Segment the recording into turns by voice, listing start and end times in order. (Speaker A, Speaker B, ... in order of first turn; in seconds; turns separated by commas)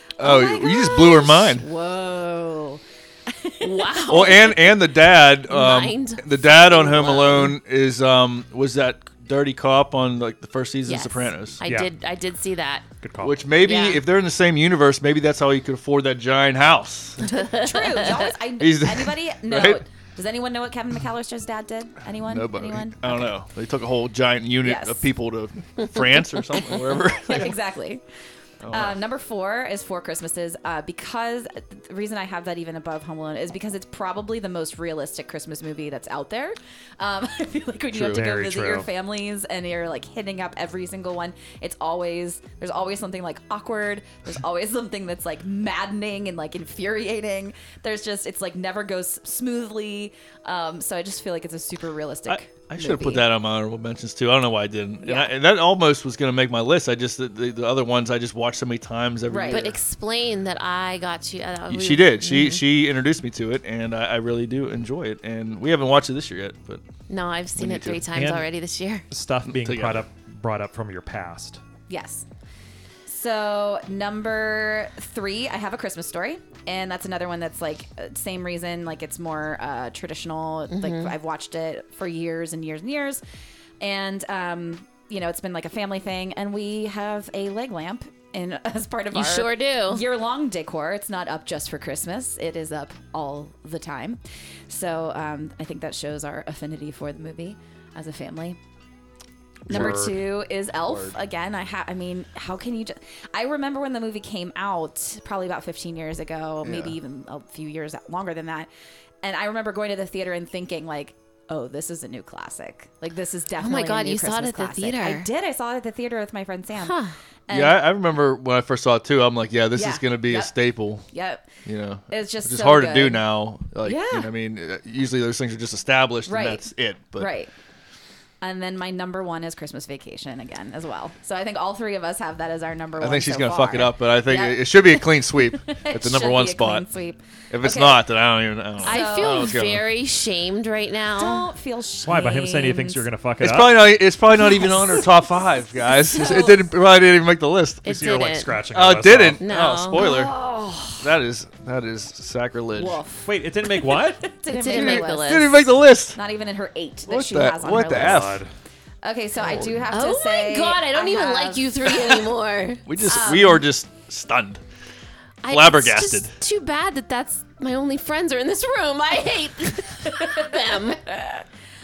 Speaker A: 0.2-1.7, Speaker B: 0.2-4.1, Speaker C: 3.6-4.8, Speaker A: 4.1-11.6, Speaker C: 5.5-7.5, Speaker B: 6.8-7.5, Speaker C: 10.8-12.9, Speaker D: 11.6-11.9, Speaker D: 13.0-13.4, Speaker A: 13.2-17.3, Speaker C: 13.6-14.0, Speaker C: 17.2-18.3, Speaker B: 17.3-23.3, Speaker A: 18.6-19.8, Speaker A: 22.2-27.6, Speaker B: 24.6-25.1, Speaker B: 27.2-28.0, Speaker A: 28.6-29.0, Speaker B: 28.7-53.3, Speaker A: 37.9-38.2, Speaker D: 38.1-38.9, Speaker A: 52.3-59.8, Speaker B: 55.0-55.3, Speaker B: 59.3-59.6, Speaker C: 59.5-62.6, Speaker A: 61.7-66.8, Speaker C: 67.1-69.0, Speaker A: 67.6-68.0, Speaker D: 68.1-68.5, Speaker D: 69.1-71.6, Speaker A: 69.5-70.1, Speaker B: 71.9-72.3, Speaker B: 73.1-83.2, Speaker C: 80.7-81.2, Speaker B: 83.8-98.6, Speaker C: 89.1-90.0, Speaker B: 99.7-108.7, Speaker D: 99.7-100.2, Speaker A: 99.7-100.0, Speaker A: 100.9-101.2, Speaker A: 106.6-107.0, Speaker B: 109.2-117.0, Speaker C: 113.6-115.3, Speaker C: 116.8-117.2, Speaker B: 117.5-117.8, Speaker A: 117.5-121.0, Speaker B: 119.7-120.5, Speaker B: 121.1-121.5, Speaker A: 121.7-127.3, Speaker B: 122.1-123.3, Speaker B: 123.8-124.3, Speaker B: 126.3-127.5, Speaker B: 128.4-138.1, Speaker A: 133.0-136.9, Speaker A: 137.5-139.9, Speaker B: 138.8-139.6, Speaker C: 138.8-141.5, Speaker B: 141.2-143.1, Speaker D: 142.1-143.9, Speaker A: 143.4-147.8, Speaker B: 144.4-145.1, Speaker B: 146.0-146.6, Speaker C: 147.8-148.7, Speaker D: 147.8-149.4, Speaker A: 148.7-150.3, Speaker C: 149.4-150.1, Speaker B: 149.9-151.2, Speaker A: 151.0-153.0, Speaker B: 152.8-158.4, Speaker D: 153.2-154.3, Speaker C: 154.5-155.5, Speaker A: 154.7-156.2, Speaker A: 157.1-158.4, Speaker D: 157.8-158.5, Speaker B: 159.0-162.3, Speaker A: 159.4-159.9, Speaker C: 159.9-163.4, Speaker A: 162.9-164.6, Speaker B: 163.0-163.7, Speaker C: 165.4-171.3, Speaker A: 165.5-166.4, Speaker B: 170.1-171.3